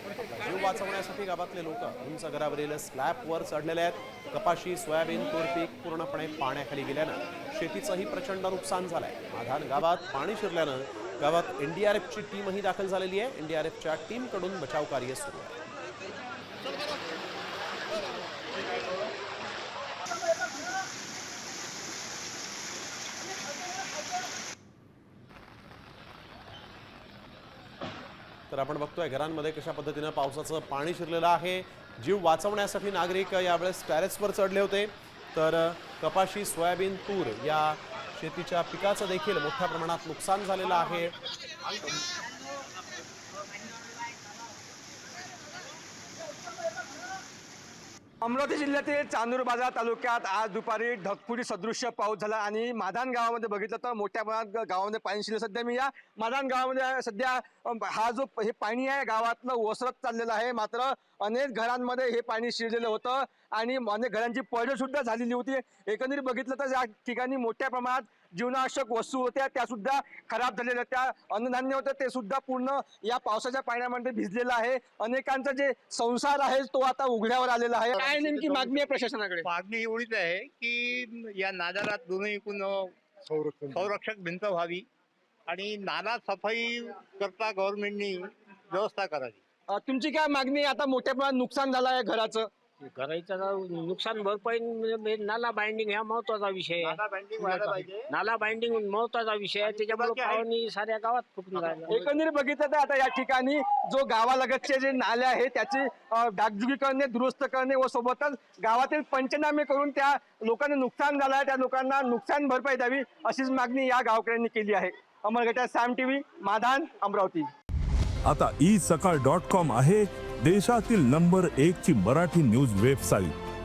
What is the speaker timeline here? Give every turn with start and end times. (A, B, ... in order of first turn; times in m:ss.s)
0:00.3-0:15.5 A
0:28.5-0:41.1 A
0:48.2-1:19.5 B
1:18.0-1:18.8 C
1:19.4-1:24.8 C
1:25.5-1:29.4 C
1:29.7-1:32.5 B
1:32.9-1:42.0 D
1:36.8-1:38.1 C
1:39.6-1:40.4 C
1:41.9-1:57.5 B
1:58.2-2:03.3 E